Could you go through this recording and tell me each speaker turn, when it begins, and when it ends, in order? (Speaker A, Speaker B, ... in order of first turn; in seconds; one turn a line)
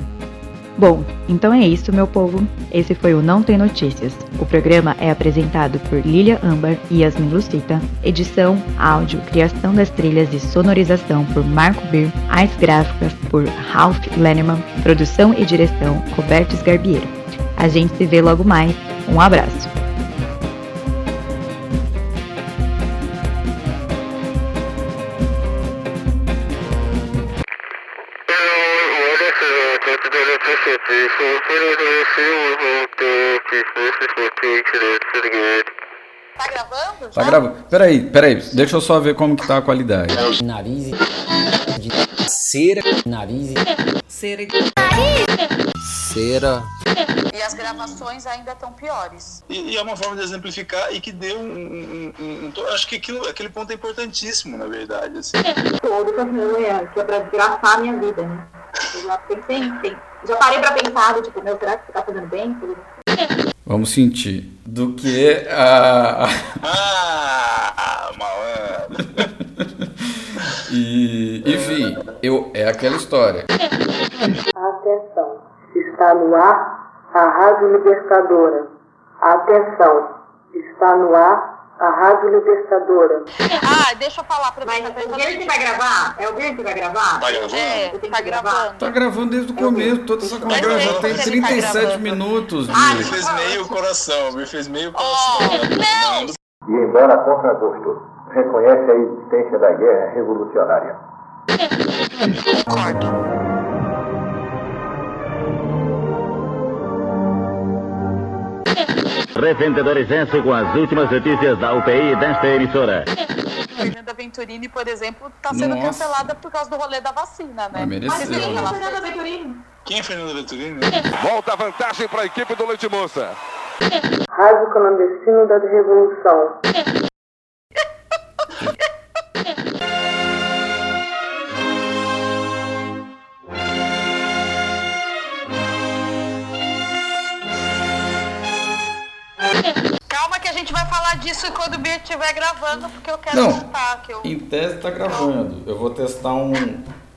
Speaker A: 0.8-19.7
Speaker B: 36.4-37.4
Speaker C: 37.1-40.3
Speaker D: 40.4-40.9
Speaker D: 41.8-43.6
Speaker B: 44.1-45.2
Speaker D: 45.9-46.7
Speaker B: 47.3-49.4
Speaker E: 49.5-55.5
Speaker F: 55.8-62.8
Speaker C: 63.6-66.5
Speaker E: 66.6-69.3
Speaker C: 70.7-73.5
Speaker G: 74.5-83.3
Speaker B: 83.5-85.6
Speaker F: 84.6-88.7
Speaker E: 87.2-87.9
Speaker B: 87.3-88.9
Speaker C: 88.8-93.1
Speaker F: 89.5-90.5
Speaker B: 90.5-92.2
Speaker E: 90.5-91.6
Speaker F: 92.7-93.6
Speaker E: 92.8-96.3
Speaker B: 94.9-96.3
Speaker H: 96.7-101.0
Speaker B: 102.5-103.1
Speaker I: 109.3-113.0
Speaker B: 113.7-119.1
Speaker C: 115.5-116.3
Speaker C: 117.7-118.7
Speaker F: 118.1-119.6
Speaker E: 119.8-121.1
Speaker J: 121.2-123.3
Speaker G: 124.3-126.6
Speaker B: 140.1-144.3
Speaker C: 143.3-143.7
Speaker C: 144.2-146.8